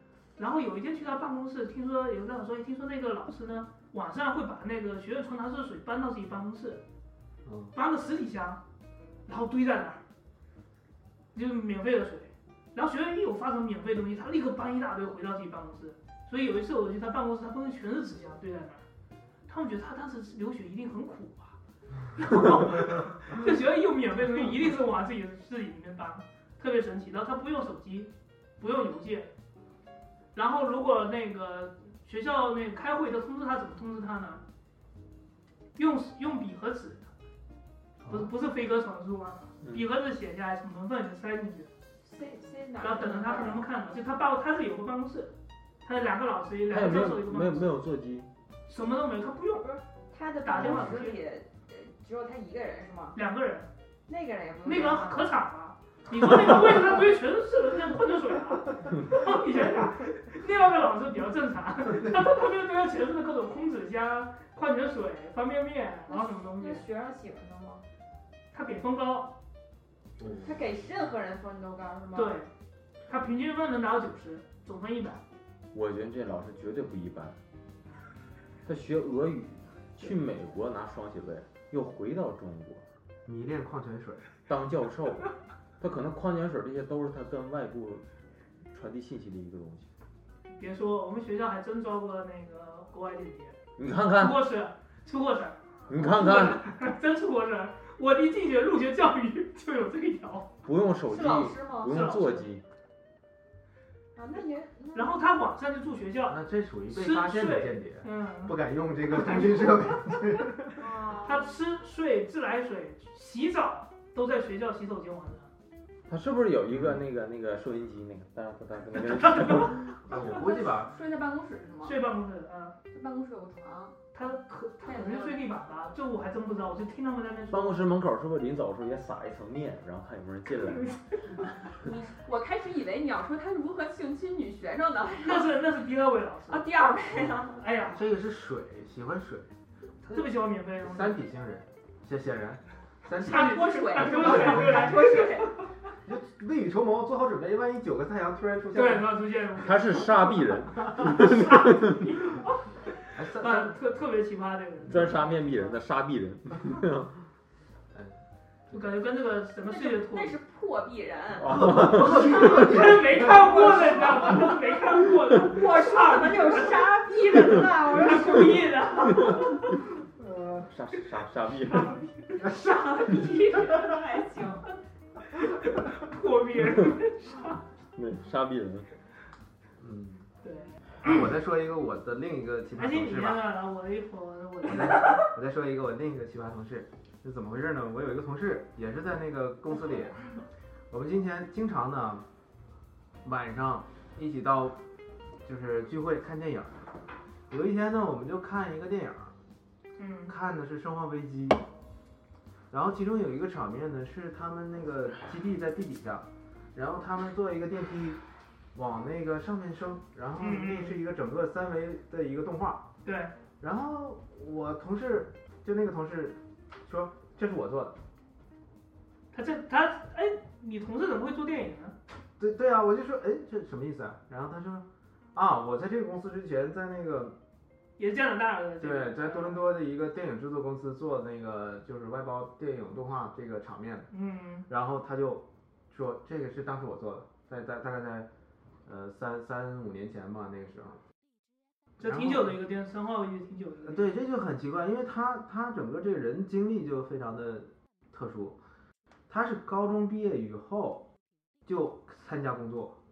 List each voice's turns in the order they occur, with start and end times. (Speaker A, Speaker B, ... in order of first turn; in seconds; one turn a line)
Speaker A: 0.4-6.8
Speaker B: 7.5-7.7
Speaker A: 7.7-8.6
Speaker A: 9.3-10.0
Speaker A: 11.3-18.8
Speaker A: 19.5-21.6
Speaker A: 22.1-29.3
Speaker A: 30.3-34.4
Speaker A: 35.8-37.1
Speaker B: 38.0-38.3
Speaker A: 38.1-41.7
Speaker C: 42.0-43.6
Speaker A: 42.8-47.7
Speaker D: 46.7-48.3
Speaker A: 48.7-49.8
Speaker C: 50.1-53.2
Speaker A: 50.5-51.2
Speaker A: 53.1-53.7
Speaker C: 54.1-55.3
Speaker A: 54.6-66.9
Speaker C: 66.1-67.8
Speaker A: 68.5-69.3
Speaker B: 70.2-70.5
Speaker C: 70.2-72.4
Speaker A: 72.1-72.5
Speaker A: 73.1-75.2
Speaker D: 75.7-77.4
Speaker D: 78.6-82.8
Speaker B: 83.3-84.3
Speaker D: 84.5-88.0
Speaker D: 88.7-89.9
Speaker A: 90.5-93.6
Speaker D: 93.8-94.4
Speaker A: 94.2-100.5
Speaker D: 95.9-96.7
Speaker D: 100.6-102.6
Speaker C: 101.1-102.2
Speaker A: 101.9-102.5
Speaker C: 104.1-105.1
Speaker A: 104.9-106.4
Speaker B: 106.3-110.8
Speaker A: 106.9-108.6
Speaker C: 110.8-111.5
Speaker A: 111.2-115.5
Speaker D: 116.1-120.0
Speaker B: 116.7-117.0
Speaker B: 120.0-120.9
Speaker C: 120.2-122.0
Speaker A: 121.8-122.8
Speaker C: 122.9-124.0
Speaker A: 124.1-127.8
Speaker C: 124.8-125.4
Speaker D: 127.5-131.3
Speaker C: 131.8-135.6
Speaker A: 135.2-136.7
Speaker C: 136.5-137.6
Speaker A: 137.5-138.1
Speaker B: 137.9-139.5
Speaker A: 140.0-141.2
Speaker B: 140.8-145.1
Speaker A: 143.1-145.5
Speaker C: 143.1-145.6
Speaker B: 146.0-149.2
Speaker A: 148.7-155.7
Speaker D: 149.6-152.2
Speaker B: 153.1-153.8
Speaker D: 154.9-157.1
Speaker B: 157.9-158.2
Speaker A: 158.7-160.4
Speaker C: 159.6-168.8
Speaker D: 161.4-162.4
Speaker B: 161.5-163.7
Speaker A: 161.8-166.8
Speaker A: 167.5-169.8
Speaker B: 170.2-170.7
Speaker D: 170.7-172.0
Speaker A: 171.7-172.2
Speaker C: 172.3-174.7
Speaker A: 175.8-177.6
Speaker D: 177.9-178.9
Speaker B: 179.8-180.3
Speaker A: 180.4-180.8
Speaker B: 181.0-183.4
Speaker A: 182.8-185.3
Speaker B: 184.6-190.2
Speaker B: 190.9-192.3
Speaker B: 193.2-194.8
Speaker B: 195.4-196.9
Speaker B: 197.5-199.3
Speaker A: 200.0-200.3
Speaker B: 200.3-201.6
Speaker B: 202.7-208.2
Speaker B: 208.8-212.8
Speaker A: 210.4-211.0
Speaker A: 213.0-213.3
Speaker B: 213.6-218.0
Speaker A: 219.3-222.0
Speaker B: 222.4-227.4
Speaker A: 228.0-229.7
Speaker B: 228.8-234.1
Speaker A: 234.1-234.7
Speaker B: 234.7-238.3
Speaker B: 238.8-241.0
Speaker A: 242.0-244.1
Speaker B: 242.0-242.6
Speaker B: 243.8-248.6
Speaker B: 249.3-251.1
Speaker B: 251.7-253.0